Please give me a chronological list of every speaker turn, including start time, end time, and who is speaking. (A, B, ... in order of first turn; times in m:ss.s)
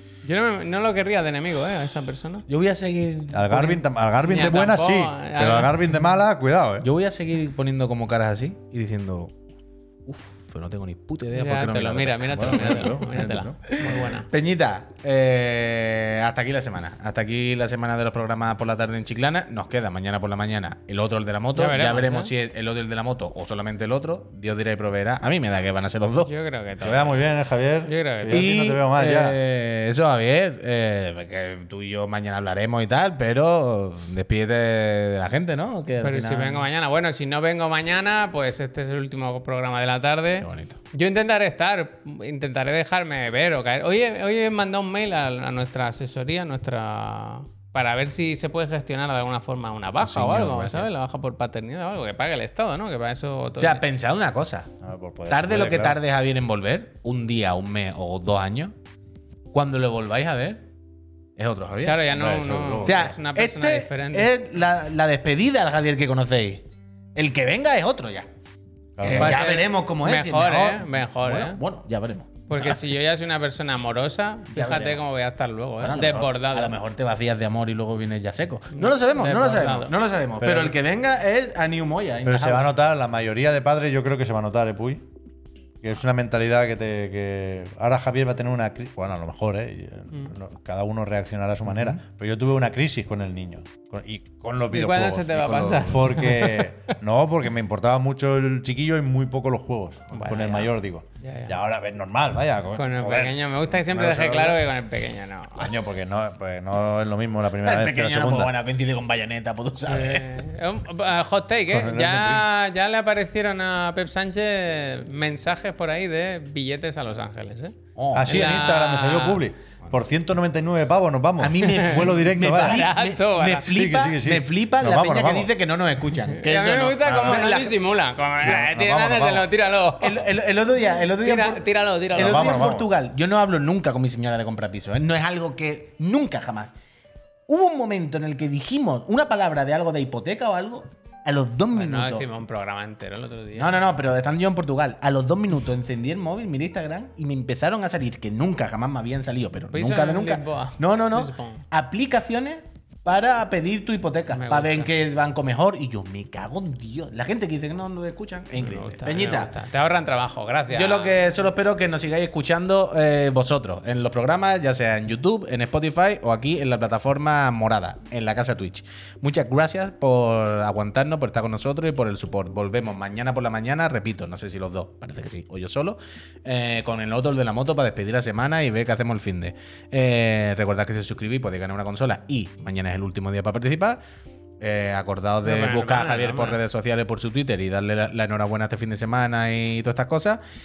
0:00.2-0:02.4 A
0:02.5-0:03.8 B
0:03.3-0:06.9 C
0:04.2-0:05.9 A
0:06.8-0:09.3 B
0:10.1-0:12.9 B
0:11.3-0:14.3 A
0:12.3-0:13.6 C
0:13.7-0:26.3 B
0:21.6-0:22.3 A
0:26.2-0:27.2 A
0:26.8-0:29.4 C
0:27.9-0:28.5 A
0:28.3-0:36.7 B
0:36.0-0:53.8 A
0:40.4-0:40.8 B
0:50.0-0:50.9 B
0:53.6-0:54.7 B
0:54.8-0:56.0 C
0:55.3-0:58.7 B
0:59.5-1:00.6 B
1:01.4-1:02.0 B
1:01.8-1:04.3 A
1:02.1-1:03.1 C
1:02.8-1:06.6 B
1:07.2-1:08.3 B
1:09.0-1:09.4 C
1:09.0-1:12.8 B
1:09.1-1:11.6 A
1:12.5-1:16.8 A
1:14.5-1:15.0 B
1:15.8-1:22.7 B
1:18.7-1:19.9 A
1:20.4-1:20.8 C
1:22.2-1:25.0 C
1:25.8-1:44.6 C
1:31.7-1:32.0 B
1:34.7-1:37.0 A
1:40.1-1:41.6 A
1:42.8-1:45.7 A
1:45.6-1:48.5 C
1:47.6-1:50.4 B
1:49.9-1:57.8 A
1:51.7-1:52.5 C
1:58.0-1:58.6 B
1:58.1-2:02.9 C
1:58.3-1:59.4 A
2:01.4-2:07.8 B
2:01.6-2:02.0 A
2:02.5-2:03.7 A
2:03.4-2:05.5 C
2:06.3-2:10.2 A
2:07.0-2:07.5 C
2:08.4-2:09.5 C
2:10.0-2:16.7 B
2:10.9-2:12.7 A
2:12.2-2:12.9 C
2:17.5-2:22.3 B
2:21.7-2:23.8 A
2:23.6-2:39.5 B
2:29.7-2:31.6 A
2:34.3-2:34.9 A
2:38.6-2:41.2 A
2:40.7-3:04.0 B
3:04.6-3:10.4 B
3:05.4-3:06.6 A